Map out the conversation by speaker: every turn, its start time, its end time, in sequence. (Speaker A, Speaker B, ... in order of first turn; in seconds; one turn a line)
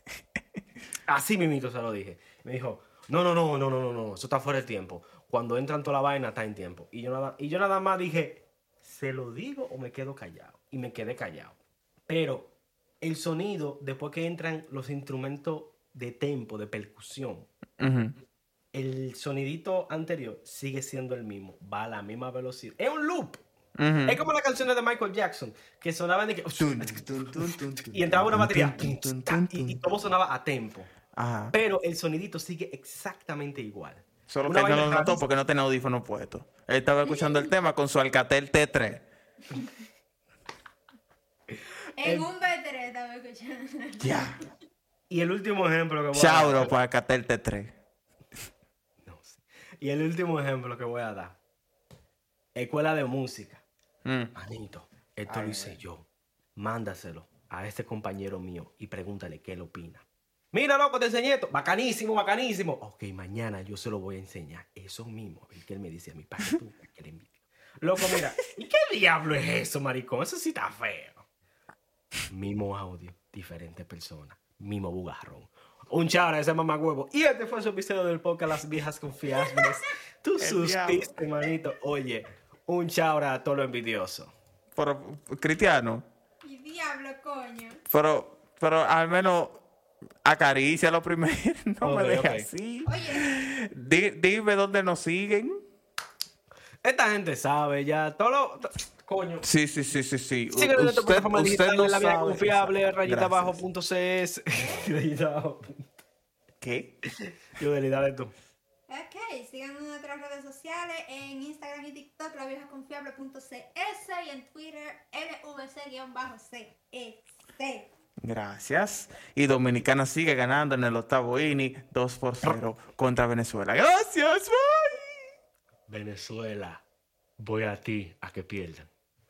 Speaker A: 1.1-17.5
Speaker B: 17.8-18.1
Speaker A: 18.7-23.4
Speaker B: 23.8-24.2
Speaker A: 24.1-30.9
Speaker B: 26.6-29.9
Speaker B: 31.1-31.6
Speaker A: 31.5-35.2
Speaker B: 34.3-39.1
Speaker C: 37.1-37.5
Speaker C: 42.0-44.2
Speaker B: 44.0-44.4
Speaker A: 45.1-46.7
Speaker B: 46.1-47.7
Speaker A: 49.0-51.4
Speaker A: 52.5-53.6
Speaker B: 54.0-54.3
Speaker A: 54.3-71.2
Speaker B: 55.2-55.8
Speaker A: 72.3-84.3
Speaker B: 80.4-81.1
Speaker B: 84.7-86.0
Speaker C: 86.4-87.8
Speaker B: 87.9-89.6
Speaker B: 90.2-95.6
Speaker A: 91.8-92.5
Speaker C: 92.8-93.3
Speaker A: 96.8-99.5
Speaker B: 99.4-103.6
Speaker A: 100.5-105.9
Speaker C: 104.5-104.9
Speaker B: 106.6-106.9
Speaker A: 107.2-108.3
Speaker C: 108.9-117.9
Speaker B: 118.2-125.2
Speaker A: 125.9-126.8
Speaker A: 127.4-128.9